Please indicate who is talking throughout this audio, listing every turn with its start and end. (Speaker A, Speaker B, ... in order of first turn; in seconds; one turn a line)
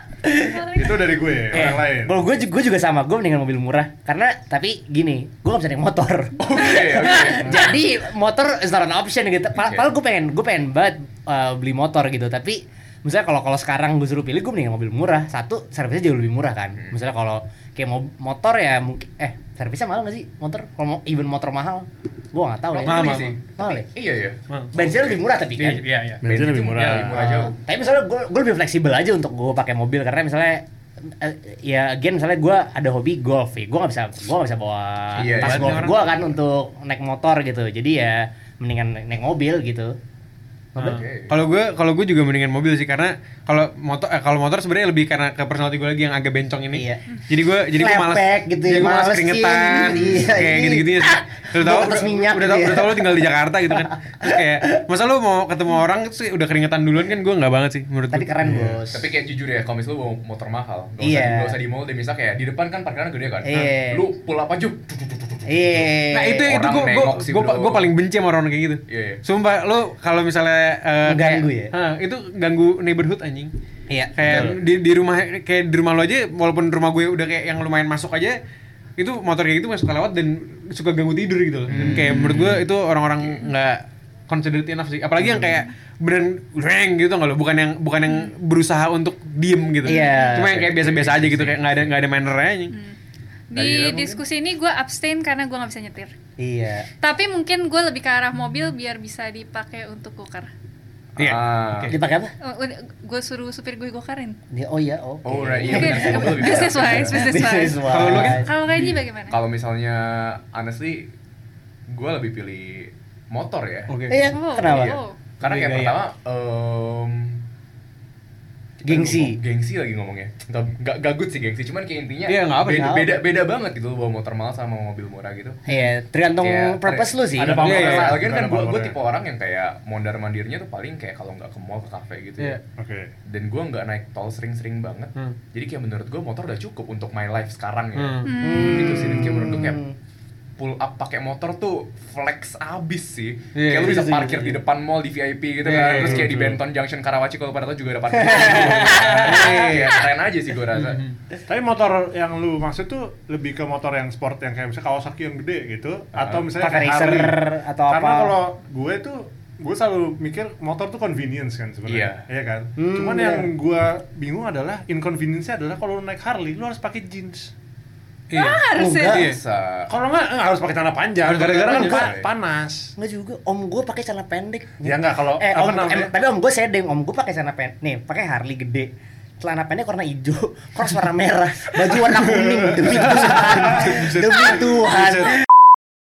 Speaker A: 0.2-0.6
Speaker B: 0.5-1.1
Speaker C: 0.7-2.2
Speaker A: 1.5-23.9
Speaker D: 6.4-7.7
Speaker D: 9.6-9.9
Speaker D: 22.7-25.2
Speaker E: 22.8-23.3
Speaker A: 24.7-25.9
Speaker E: 25.6-26.2
Speaker C: 26.2-27.3
Speaker D: 26.2-27.5
Speaker E: 26.8-27.0
Speaker A: 27.1-40.0
Speaker D: 35.1-36.1
Speaker E: 35.2-36.1
Speaker A: 40.7-41.0
Speaker E: 40.8-58.3
Speaker D: 40.8-41.5
Speaker A: 46.7-47.0
Speaker A: 47.7-54.8
Speaker A: 58.1-59.1
Speaker C: 58.4-58.8
Speaker D: 58.9-67.9
Speaker A: 61.0-61.6
Speaker A: 63.4-64.0
Speaker A: 65.5-66.5
Speaker E: 66.1-73.5
Speaker D: 68.9-69.2
Speaker A: 71.0-71.7
Speaker A: 73.9-74.5
Speaker E: 74.2-78.4
Speaker D: 74.2-74.5
Speaker C: 74.2-74.6
Speaker E: 79.0-92.7
Speaker D: 81.7-82.7
Speaker B: 88.0-88.3
Speaker B: 89.8-90.4
Speaker A: 89.8-90.5
Speaker D: 90.4-92.0
Speaker B: 92.7-93.0
Speaker B: 93.5-96.1
Speaker D: 93.5-94.2
Speaker A: 96.4-96.9
Speaker B: 97.0-100.5
Speaker D: 101.2-101.9
Speaker E: 101.2-102.0
Speaker A: 101.9-102.3
Speaker B: 102.4-104.4
Speaker A: 104.5-108.5
Speaker D: 105.2-107.3
Speaker B: 105.7-109.4
Speaker E: 107.9-108.8
Speaker D: 108.8-111.1
Speaker D: 111.9-113.9
Speaker E: 113.9-114.2
Speaker A: 114.1-115.0
Speaker B: 114.3-115.1
Speaker D: 114.6-117.4
Speaker E: 115.4-116.0
Speaker D: 118.8-125.6
Speaker A: 118.8-119.4
Speaker E: 122.2-123.1
Speaker A: 122.8-123.2
Speaker A: 125.7-128.0
Speaker D: 126.4-132.6
Speaker C: 127.4-129.0
Speaker E: 127.6-128.2
Speaker C: 132.8-133.1
Speaker D: 133.2-139.8
Speaker E: 137.9-138.3
Speaker B: 138.2-139.1
Speaker A: 138.4-139.9
Speaker D: 140.6-151.0
Speaker E: 143.5-144.0
Speaker A: 143.7-144.6
Speaker E: 145.6-146.4
Speaker C: 145.9-146.6
Speaker A: 148.1-149.7
Speaker E: 148.4-150.0
Speaker E: 150.7-151.2
Speaker C: 151.5-167.5
Speaker D: 156.1-156.5
Speaker A: 156.6-158.3
Speaker D: 161.9-162.2
Speaker A: 162.8-163.5
Speaker E: 168.3-169.4
Speaker B: 168.3-169.3
Speaker A: 168.7-169.3
Speaker D: 169.1-169.9
Speaker C: 169.9-172.9
Speaker E: 171.2-172.1
Speaker A: 171.6-172.1
Speaker D: 171.9-172.3
Speaker A: 173.0-185.3
Speaker C: 174.8-176.1
Speaker C: 182.4-184.0
Speaker E: 182.9-185.4